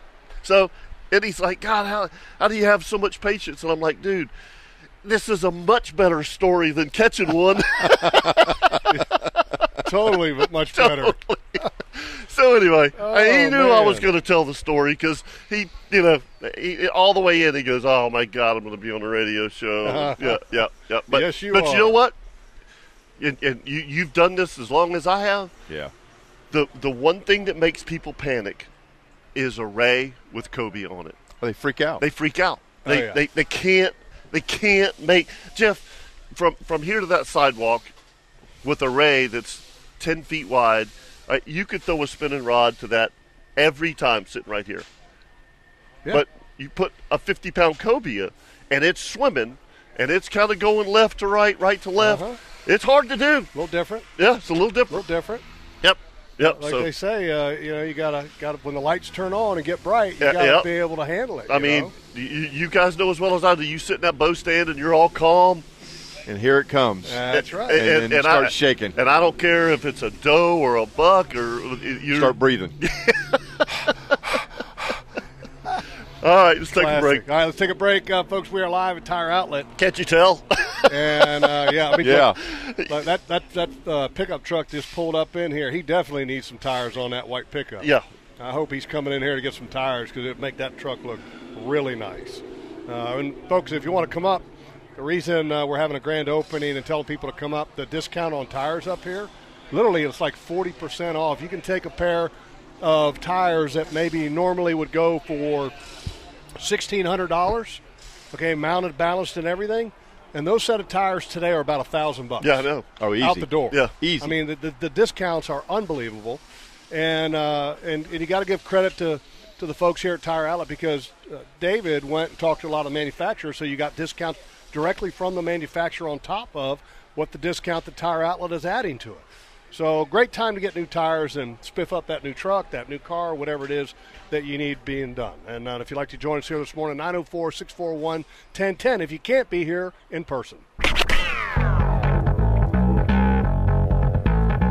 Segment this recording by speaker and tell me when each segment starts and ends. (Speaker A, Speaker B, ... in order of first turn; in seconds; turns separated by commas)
Speaker A: 0.4-4.3, Speaker A: 5.0-8.8, Speaker B: 8.0-8.3, Speaker C: 9.8-11.1, Speaker A: 10.7-22.1, Speaker C: 12.9-14.1, Speaker C: 19.8-20.4, Speaker C: 21.1-22.0, Speaker A: 23.2-25.5, Speaker A: 26.5-28.7, Speaker A: 29.3-31.2, Speaker B: 31.4-32.0, Speaker A: 32.0-37.9, Speaker C: 32.8-33.2, Speaker A: 38.6-44.9, Speaker A: 46.1-53.5, Speaker C: 52.0-52.4, Speaker C: 53.5-54.1, Speaker A: 54.2-55.0, Speaker C: 54.9-55.4, Speaker A: 55.8-56.9, Speaker C: 56.4-61.9, Speaker A: 60.2-60.7, Speaker A: 61.5-65.6, Speaker B: 66.2-69.0, Speaker C: 67.0-67.8, Speaker A: 67.3-73.3, Speaker B: 72.1-72.8, Speaker A: 76.2-77.2, Speaker C: 76.7-79.7, Speaker A: 79.8-81.3, Speaker C: 80.9-82.3, Speaker B: 82.0-82.4, Speaker A: 82.4-82.9, Speaker C: 82.9-87.9, Speaker C: 88.4-94.5, Speaker C: 95.0-105.7, Speaker C: 106.6-107.8, Speaker C: 108.3-112.6, Speaker A: 112.4-112.9, Speaker B: 113.0-114.3, Speaker C: 113.2-140.6